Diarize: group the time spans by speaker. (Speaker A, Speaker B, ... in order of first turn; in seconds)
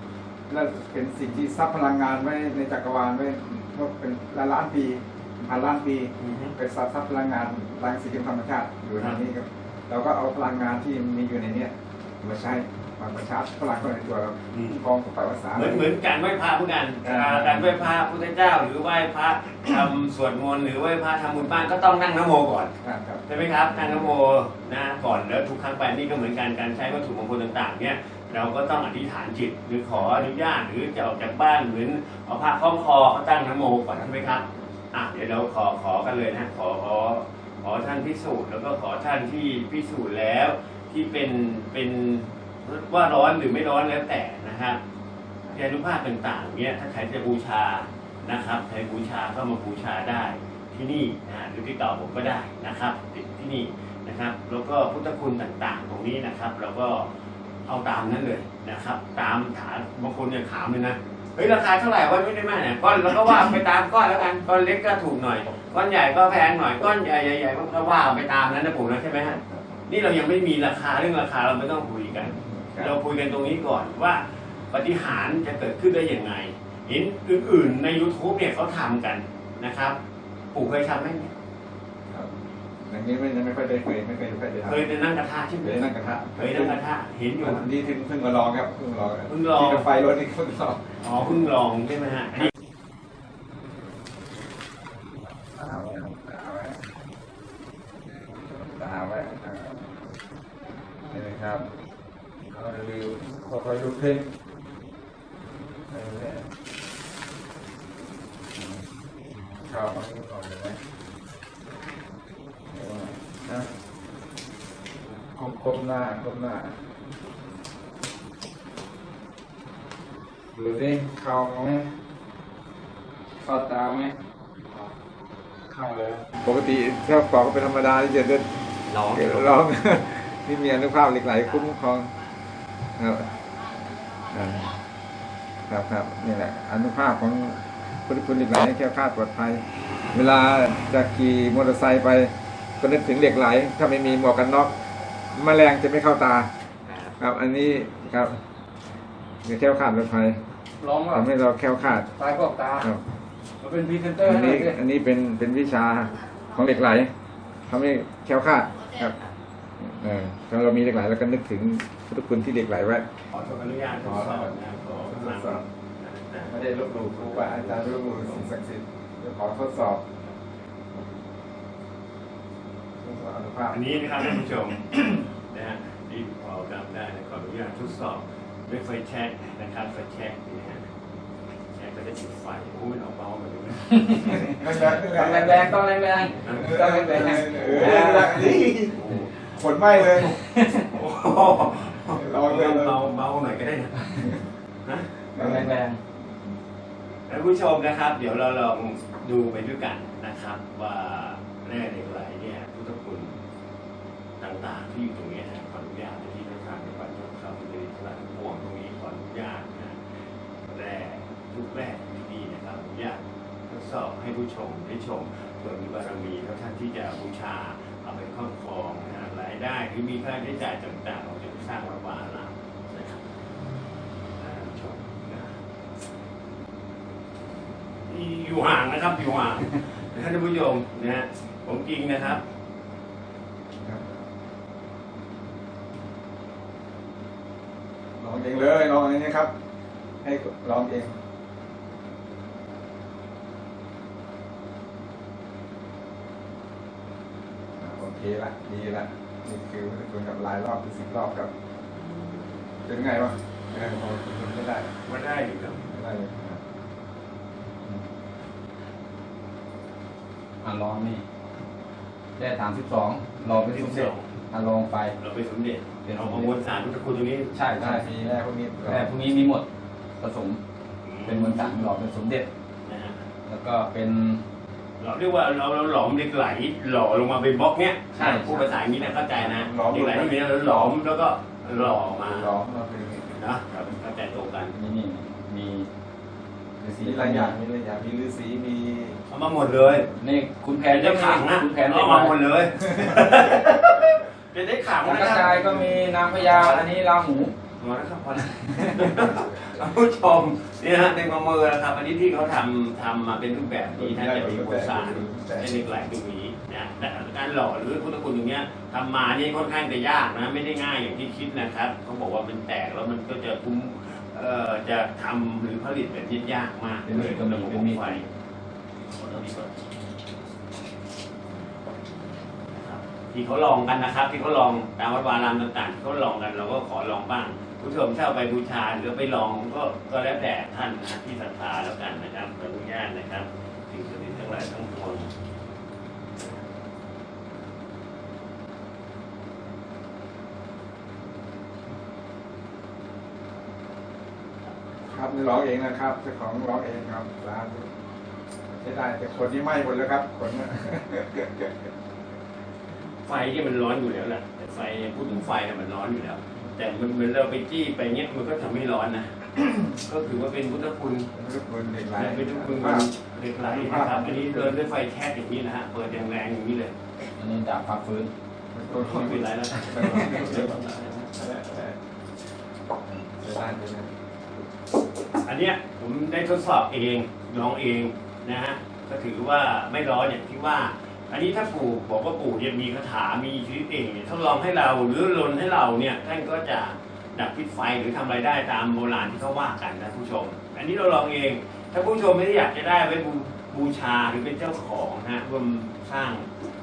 Speaker A: 0.5-15.9, 17.0-17.9, 22.8-24.2, 33.9-34.7, 69.4-69.6, 72.1-73.0, 82.1-84.9, 85.6-86.8, 87.4-91.3, 95.4-96.9, 98.4-100.0, 101.1-101.7, 102.5-104.4, 105.9-106.5, 109.7-110.8, 112.7-113.7, 115.3-116.8, 120.5-121.9, 126.4-132.1, 133.0-133.3, 134.2-134.8, 135.7-144.8, 145.3-146.5, 147.2-148.4, 149.4-150.4, 151.1-152.1, 152.8-153.1, 154.2-157.1, 157.7-159.3, 159.8-163.1, 163.9-165.6, 166.5-170.0, 173.0-174.3, 174.8-175.2, 184.2-185.8, 186.5-190.4, 192.0-193.1, 195.3-196.5, 233.8-234.2, 238.2-239.5, 240.2-241.2, 247.8-251.5, 252.8-254.9, 255.9-256.6, 267.8-269.2, 279.1-281.0, 282.1-283.4, 286.8-289.2, 292.9-293.3, 303.9-305.9, 345.1-347.9, 348.7-351.9, 359.6-359.9, 361.3-363.1, 363.6-364.8, 368.7-372.0, 373.0-374.1
Speaker B: 6.2-6.6, 14.5-14.8, 15.6-22.7, 23.3-44.8, 45.5-57.1, 57.7-80.0, 80.5-81.3, 84.7-87.7, 89.3-89.9, 91.0-92.5, 128.9-129.3, 146.9-147.2, 163.3-168.5, 173.7-180.9, 181.7-184.5, 186.4-189.6, 190.1-194.2, 194.8-195.1, 197.3-203.4, 204.4-223.2, 224.4-225.6, 228.1-232.4, 251.9-252.5, 255.0-255.9, 263.4-264.3, 265.2-267.5, 271.0-271.9, 272.8-273.2, 275.0-282.5, 283.3-284.7, 289.3-290.1, 290.9-296.9, 297.8-318.3, 319.1-319.7, 322.7-335.3, 336.4-336.7, 353.2-359.5, 360.0-361.3, 362.1-366.9, 368.9-371.4, 375.4-396.5
Speaker C: 123.4-124.1, 125.7-126.3, 129.2-129.5, 150.8-151.3, 152.1-152.9, 153.6-154.8, 183.9-188.7, 190.2-190.9, 195.3-196.0, 260.6-261.2, 262.4-265.1, 266.0-266.5, 267.5-268.1, 268.8-269.7, 270.2-270.6, 271.2-272.5, 273.5-274.4, 278.1-278.8, 284.7-285.9, 286.9-287.6, 290.2-292.4, 295.0-297.5, 317.1-318.2, 367.4-368.3